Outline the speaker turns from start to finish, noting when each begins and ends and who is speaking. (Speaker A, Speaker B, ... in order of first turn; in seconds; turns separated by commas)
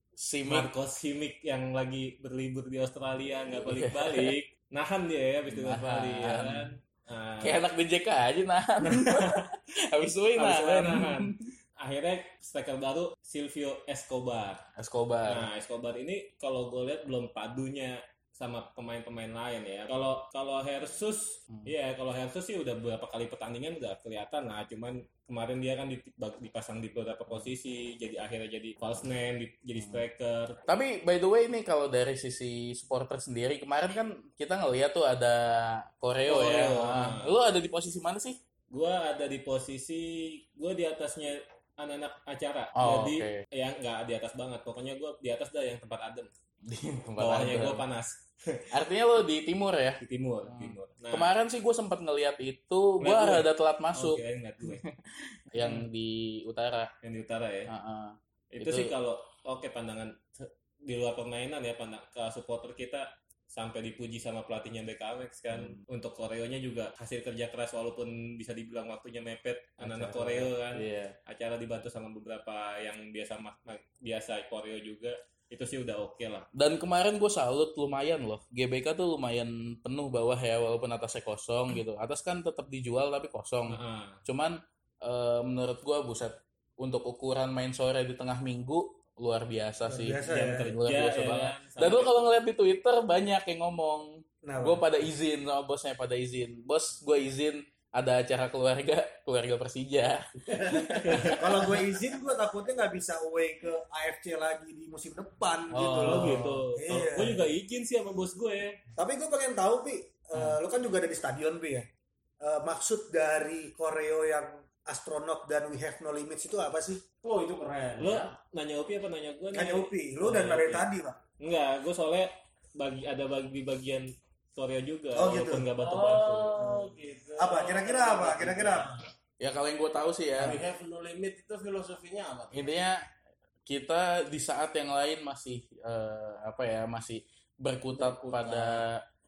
Speaker A: 0.2-0.7, Speaker B: 0.5-7.6, Speaker A: 3.7-4.3, Speaker A: 5.5-6.7, Speaker A: 7.4-11.5, Speaker B: 8.8-9.4, Speaker B: 10.4-14.6, Speaker A: 14.8-15.5, Speaker B: 15.3-30.6, Speaker A: 30.7-38.4, Speaker B: 36.3-37.3, Speaker B: 38.7-46.3, Speaker A: 42.8-43.4, Speaker A: 46.6-47.8, Speaker B: 47.2-48.7, Speaker A: 48.7-55.0, Speaker B: 50.0-51.3, Speaker B: 53.0-54.8, Speaker A: 55.5-56.9, Speaker B: 55.6-55.9, Speaker B: 57.0-57.7, Speaker A: 57.7-58.9, Speaker B: 58.5-76.5, Speaker A: 65.5-65.8, Speaker A: 69.8-71.2, Speaker A: 76.5-101.3, Speaker B: 83.7-84.2, Speaker C: 89.9-90.7, Speaker B: 90.3-92.2, Speaker C: 94.4-94.8, Speaker D: 100.5-101.0, Speaker B: 101.0-101.8, Speaker C: 101.3-107.5, Speaker A: 105.7-106.6, Speaker B: 106.0-108.8, Speaker C: 109.0-111.9, Speaker C: 112.4-117.0, Speaker D: 117.2-118.3, Speaker B: 118.0-120.9, Speaker C: 119.5-121.2, Speaker B: 121.4-126.8, Speaker C: 125.1-125.7, Speaker D: 125.8-128.9, Speaker C: 127.4-129.1, Speaker A: 129.4-130.6, Speaker D: 130.4-132.8, Speaker A: 132.5-133.0, Speaker A: 133.7-139.0, Speaker D: 138.0-138.8